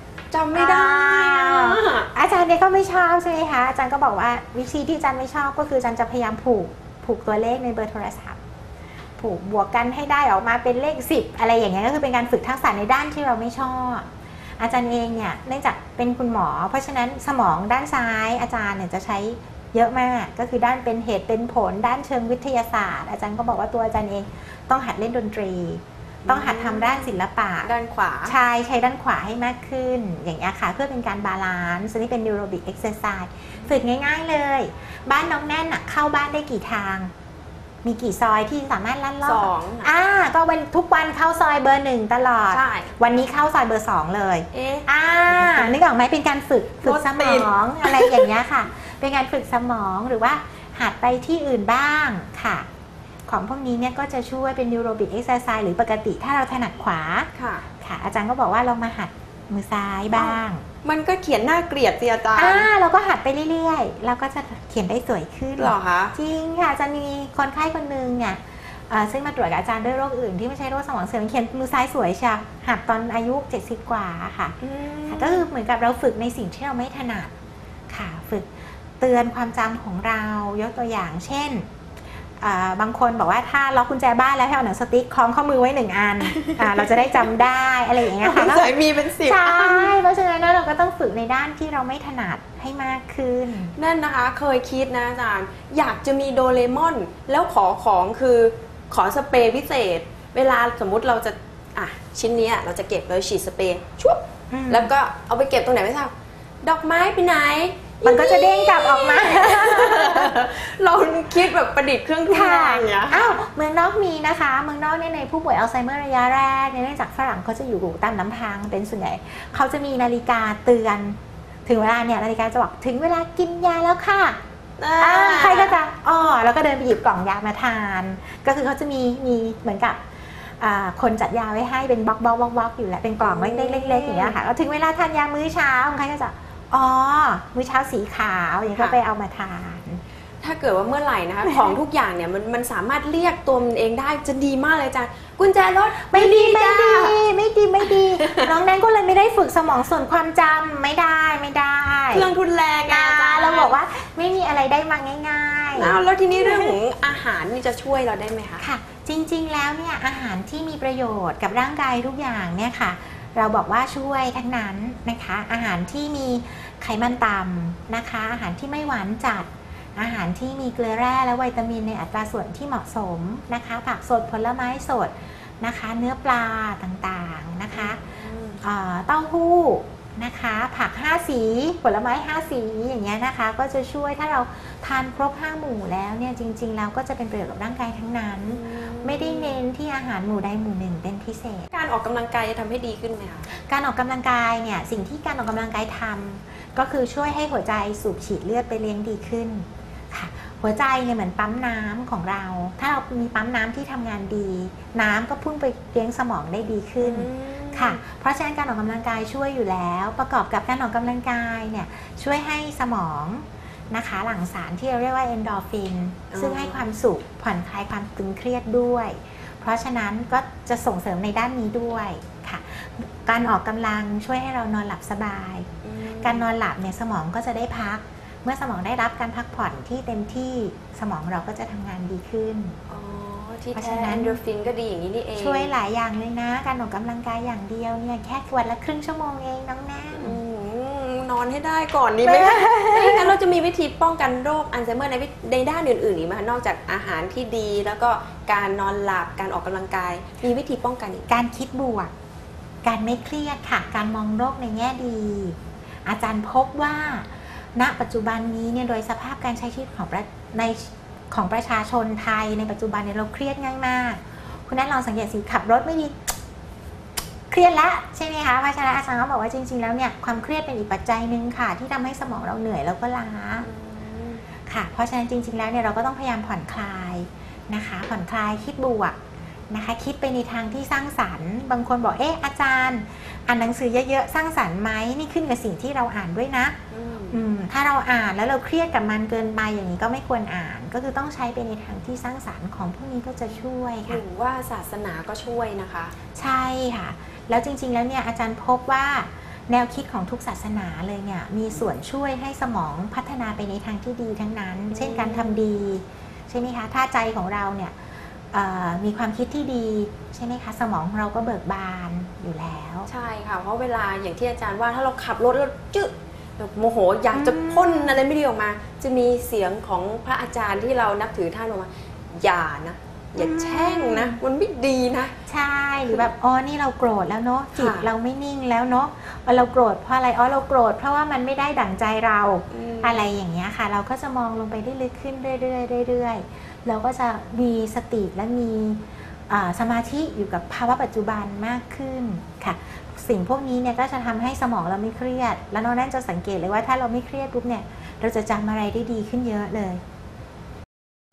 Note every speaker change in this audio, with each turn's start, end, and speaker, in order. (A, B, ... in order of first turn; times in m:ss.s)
0:00.3-0:02.1 A
0:00.5-0:08.4 B
0:09.2-0:27.7 B
0:26.2-0:28.4 A
0:28.2-0:37.1 B
0:37.8-0:52.7 B
0:39.2-0:39.9 A
0:42.5-0:43.0 A
0:44.5-0:45.8 A
0:46.8-0:48.3 A
0:53.3-1:00.6 B
0:57.3-0:57.6 A
1:00.1-1:02.7 A
1:02.4-1:14.6 B
1:05.6-1:06.2 A
1:14.6-1:15.5 A
1:15.1-1:17.3 B
1:17.9-1:21.7 B
1:22.4-1:33.7 B
1:26.2-1:27.2 A
1:28.0-1:30.0 A
1:33.7-1:53.4 A
1:44.5-1:44.9 B
1:48.0-1:50.4 B
1:52.3-2:04.4 B
2:04.8-2:05.8 A
2:05.0-2:20.0 B
2:13.2-2:14.4 A
2:20.4-2:27.2 A
2:21.5-2:21.7 B
2:26.0-2:32.3 B
2:27.8-2:28.5 A
2:32.1-2:33.8 A
2:32.9-2:36.8 B
2:35.7-2:38.6 A
2:38.6-2:58.0 B
2:57.7-2:58.6 A
2:58.6-3:11.7 B
3:08.4-3:09.6 A
3:11.7-3:13.5 A
3:13.5-3:45.7 B
3:27.0-3:28.0 A
3:36.3-3:36.8 A
3:45.8-3:46.5 A
3:46.2-3:52.8 B
3:52.9-3:55.7 A
3:53.8-3:54.4 B
3:55.4-4:00.4 B
4:00.1-4:11.4 A
4:02.2-4:03.4 B
4:11.3-4:12.1 B
4:12.8-4:26.3 B
4:27.5-4:33.6 B
4:33.6-4:34.4 A
4:34.7-4:39.2 B
4:39.7-4:46.8 B
4:46.9-4:47.4 A
4:47.3-4:54.2 B
4:54.1-4:56.1 A
4:56.4-5:13.1 B
5:04.9-5:05.6 A
5:13.1-5:25.4 A
5:17.3-5:18.2 B
5:23.4-5:24.4 B
5:25.5-5:50.0 B
5:27.8-5:28.1 A
5:32.7-5:33.3 A